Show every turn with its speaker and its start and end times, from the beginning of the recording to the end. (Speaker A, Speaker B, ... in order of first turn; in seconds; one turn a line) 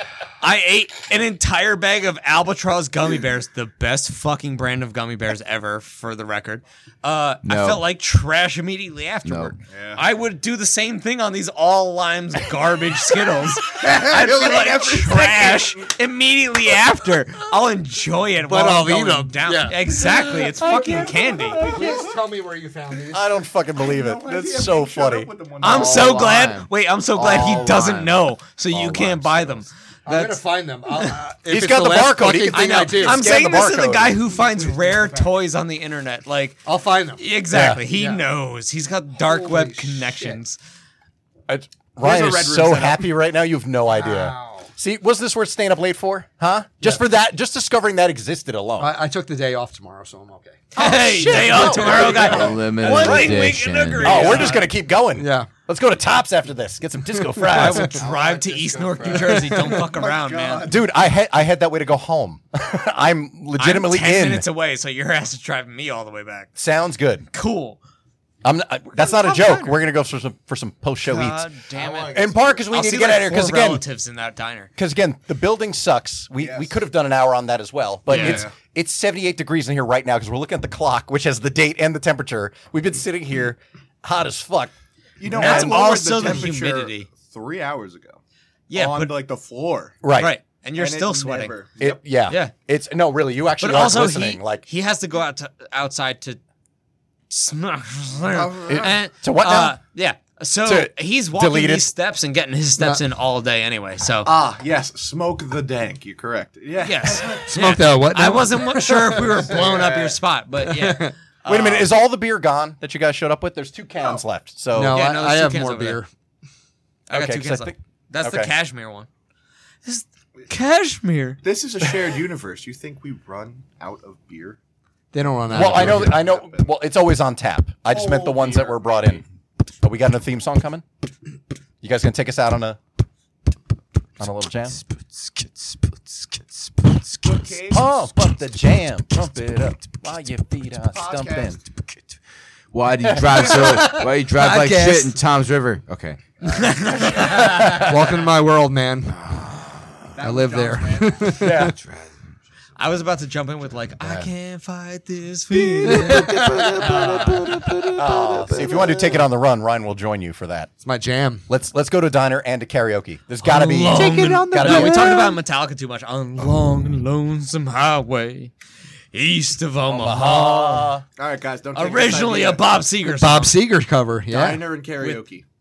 Speaker A: 0.4-21.6
Speaker B: 7.5-7.8
Speaker B: 9.2-9.6
Speaker C: 9.7-10.0
Speaker C: 13.8-15.9
Speaker D: 18.5-20.0
Speaker D: 20.6-23.4
Speaker C: 20.7-20.9
Speaker C: 21.5-22.1
Speaker E: 23.1-25.3
Speaker C: 23.8-26.3
Speaker A: 25.6-30.4
Speaker B: 25.6-28.2
Speaker B: 28.7-29.7
Speaker D: 30.1-33.3
Speaker E: 31.5-34.2
Speaker A: 32.5-40.6
Speaker D: 34.6-35.3
Speaker D: 36.6-37.3
Speaker E: 37.5-37.8
Speaker D: 37.9-38.2
Speaker D: 39.2-40.4
Speaker E: 41.5-48.9
Speaker C: 42.0-43.1
Speaker D: 43.9-44.7
Speaker D: 48.8-50.7
Speaker A: 50.8-54.7
Speaker E: 50.8-53.5
Speaker B: 51.8-54.5
Speaker E: 54.0-58.0
Speaker D: 55.1-55.5
Speaker A: 57.5-60.7
Speaker B: 58.0-59.8
Speaker D: 59.3-59.8
Speaker C: 60.0-60.9
Speaker E: 60.6-64.5
Speaker A: 63.6-66.5
Speaker E: 66.6-67.3
Speaker A: 67.3-67.8
Speaker E: 68.4-71.5
Speaker A: 69.0-69.8
Speaker A: 71.0-74.7
Speaker C: 71.8-72.3
Speaker E: 72.1-73.8
Speaker B: 72.2-72.5
Speaker E: 74.8-84.7
Speaker C: 76.4-76.7
Speaker C: 78.1-78.5
Speaker A: 78.1-78.4
Speaker C: 85.2-88.2
Speaker E: 85.3-85.8
Speaker A: 85.3-87.1
Speaker A: 88.7-89.2
Speaker C: 88.7-90.0
Speaker E: 90.0-90.3
Speaker A: 90.1-91.6
Speaker C: 90.8-92.0
Speaker E: 91.8-94.7
Speaker A: 92.3-92.5
Speaker A: 93.6-96.4
Speaker A: 97.3-104.3
Speaker C: 98.3-98.9
Speaker E: 98.7-99.8
Speaker E: 100.7-101.9
Speaker C: 104.2-107.7
Speaker A: 106.8-111.9
Speaker D: 107.5-109.4
Speaker B: 109.5-110.1
Speaker D: 110.6-111.2
Speaker E: 111.5-115.0
Speaker D: 114.7-116.1
Speaker A: 114.8-116.0
Speaker A: 117.1-119.1
Speaker E: 117.1-118.5
Speaker A: 119.8-121.9
Speaker C: 121.4-124.6
Speaker D: 125.1-126.3
Speaker C: 125.5-126.7
Speaker E: 125.5-129.2
Speaker C: 127.9-129.2
Speaker E: 129.8-130.8
Speaker E: 131.8-132.8
Speaker E: 134.2-134.8
Speaker B: 135.0-137.5
Speaker C: 137.2-137.9
Speaker E: 137.7-141.6
Speaker C: 140.8-141.6
Speaker B: 142.7-147.5
Speaker E: 143.1-143.6
Speaker D: 143.3-145.1
Speaker A: 144.4-144.8
Speaker A: 146.5-147.8
Speaker E: 147.2-147.9
Speaker D: 147.6-149.2
Speaker B: 149.1-150.1
Speaker C: 150.2-151.5
Speaker D: 150.2-151.7
Speaker B: 151.3-153.1
Speaker E: 151.4-151.8
Speaker A: 152.8-157.7
Speaker B: 154.0-154.3
Speaker B: 155.8-159.2
Speaker D: 155.9-156.7
Speaker E: 157.9-160.7
Speaker D: 160.8-161.5
Speaker E: 161.5-165.1
Speaker A: 163.4-168.5
Speaker D: 163.6-165.4
Speaker A: 169.1-170.9
Speaker E: 169.9-171.1
Speaker C: 171.2-172.7
Speaker A: 171.7-173.5
Speaker D: 173.1-174.7
Speaker C: 174.3-175.4
Speaker A: 175.0-175.2